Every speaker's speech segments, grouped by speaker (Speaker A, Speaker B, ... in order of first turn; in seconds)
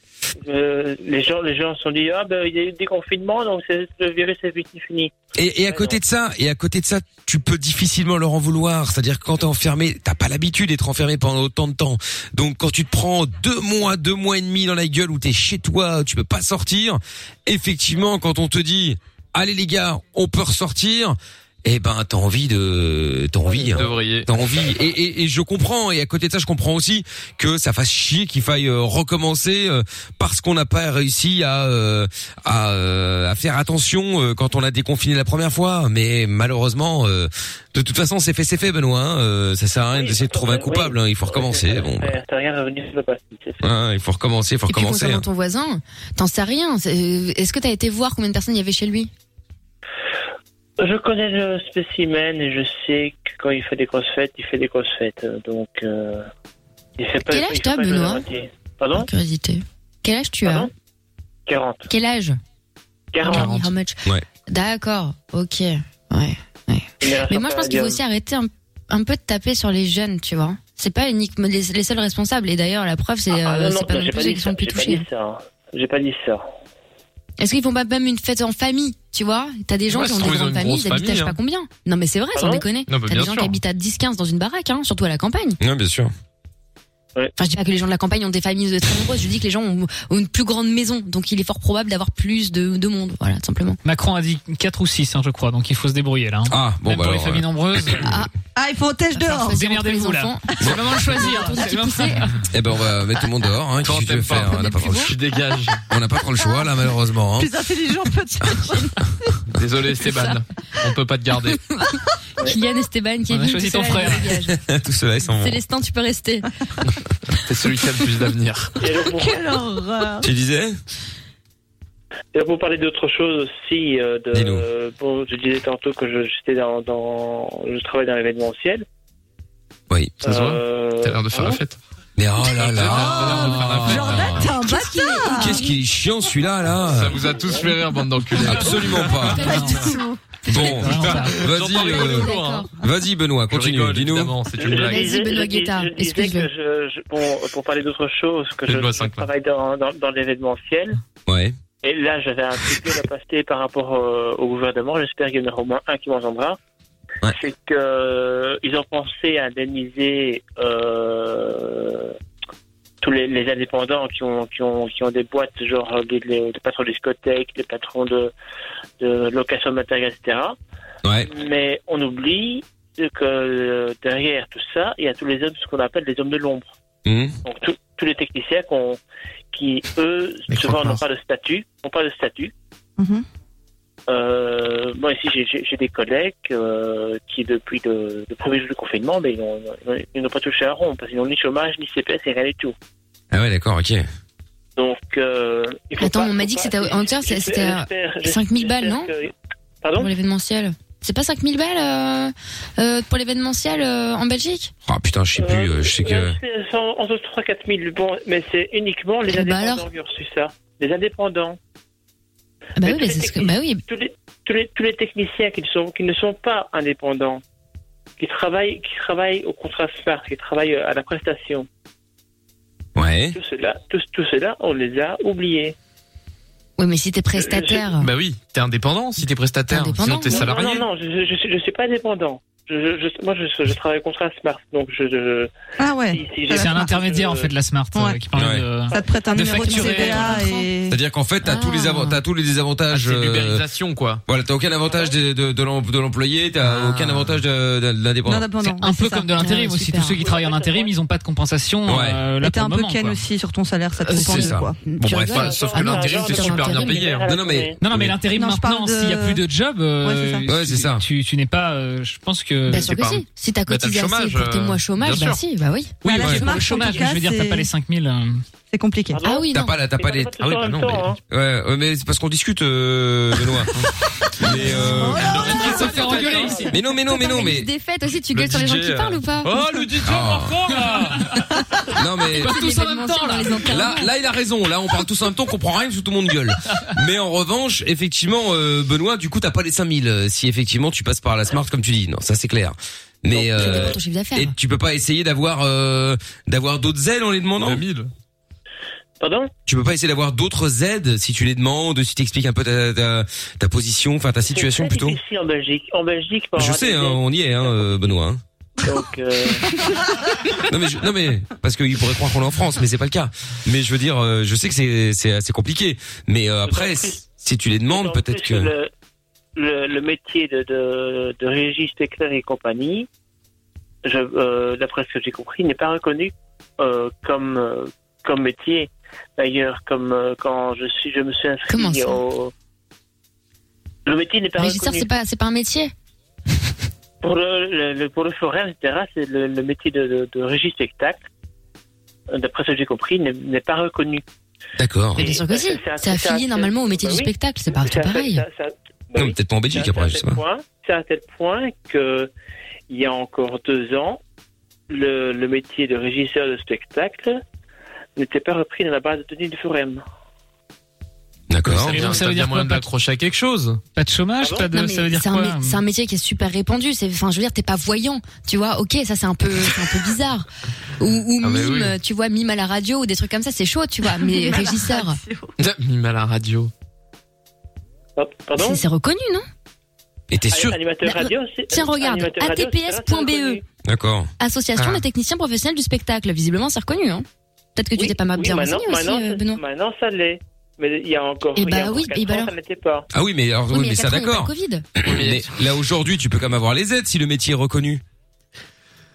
Speaker A: 0.4-5.1, 5.7-6.0, 39.9-43.7, 50.8-56.3, 57.0-59.1, 60.4-60.7, 61.5-61.9, 63.1-63.5, 67.0-68.0, 73.3-76.5, 82.3-82.7, 118.8-119.5, 122.3-128.8, 130.2-131.6, 137.4-137.7, 144.6-151.0, 151.8-156.6, 157.3-162.1, 163.0-168.3, 169.0-170.6, 171.3-176.7, 177.4-179.0, 179.5-182.5, 184.1-192.7, 194.8-200.1, 205.4-211.6, 212.8-217.4, 218.2-221.7, 223.3-225.8, 227.4-227.9, 230.1-235.5, 236.1-237.5, 244.9-245.1, 250.2-250.9, 255.3-257.8, 269.1-271.2, 276.4-276.7, 293.4-293.9, 299.2-299.5, 304.5-308.2, 308.8-309.9, 316.6-317.2, 317.9-318.9, 319.6-323.1, 324.0-332.5, 334.1-335.1, 337.2-341.2, 342.3-344.2, 345.2-352.3, 352.9-354.2, 354.9-357.4, 358.2-360.0, 364.4-364.7, 378.2-378.8, 380.5-383.6, 388.0-393.1
Speaker B: 5.4-42.1, 43.6-45.2, 85.6-86.1, 96.5-97.5, 102.5-105.2, 105.9-107.5, 114.5-115.6, 120.2-120.8, 124.3-124.7, 129.9-130.2, 132.2-134.5, 135.3-137.2, 138.4-139.6, 140.5-144.4, 151.3-151.6, 171.0-171.3, 177.1-177.3, 193.3-194.0, 204.9-206.4, 223.0-223.4, 238.3-238.7, 240.9-243.6, 244.3-248.5, 251.8-252.2, 254.2-255.3, 257.3-258.1, 260.5-261.0, 266.2-266.5, 269.5-273.7, 274.4-275.6, 276.4-277.7, 280.0-280.9, 281.9-282.6, 283.7-297.8, 299.7-305.2, 306.6-308.4, 310.7-318.7, 344.8-345.2, 349.1-350.4, 361.5-362.0, 380.3-380.8, 383.9-384.3, 393.1-398.0
Speaker C: 23.7-24.3, 79.9-81.4, 82.9-83.6, 103.8-105.8, 109.5-111.6, 117.4-118.7, 130.2-131.8, 132.6-134.4, 136.8-139.3, 140.6-142.7, 143.5-145.1, 148.7-149.3, 180.5-181.0, 228.0-230.9, 242.9-244.2, 255.0-257.3, 262.8-265.4, 275.1-276.6, 278.3-281.3, 297.6-298.1, 361.7-363.8, 371.4-371.9, 375.6-376.7, 384.8-385.0, 395.1-395.6
Speaker D: 44.7-49.1, 57.2-58.2, 58.9-60.7, 61.9-62.4, 63.2-75.1, 77.4-85.6, 87.4-93.8, 98.0-98.3, 99.2-102.3, 104.3-105.1, 110.1-110.4, 112.4-114.5, 115.3-116.5, 134.5-135.6, 139.2-140.0, 141.7-142.7, 144.7-146.5, 196.0-199.1, 199.9-204.7, 209.3-209.9, 212.8-213.8, 226.8-228.1, 229.7-230.4, 239.3-240.7, 241.4-242.2, 249.4-250.2, 254.1-257.0, 262.7-266.0, 269.2-269.8, 276.9-279.6, 282.3-284.1, 293.4-294.5, 331.7-332.2, 334.6-335.9, 345.2-348.4, 364.7-370.5, 371.0-375.2, 378.6-379.5, 381.0-383.6, 384.4-389.6, 391.6-392.5, 393.7-394.9
Speaker E: 93.8-98.2, 99.5-102.4, 113.3-114.4, 139.4-139.9, 140.6-141.5, 236.5-240.5, 248.7-253.2, 257.8-263.0, 266.0-268.4, 274.8-276.7, 282.3-283.8, 361.9-362.9, 363.9-365.8
Speaker F: 98.5-99.6, 107.4-109.1, 118.9-120.3, 132.9-135.7, 139.3-140.2, 183.0-183.2, 235.8-237.0, 237.9-238.2, 238.9-241.0, 248.3-250.0, 252.3-254.8, 258.3-259.4, 260.0-260.5, 266.0-267.7, 268.7-269.2, 274.6-276.5, 374.1-375.5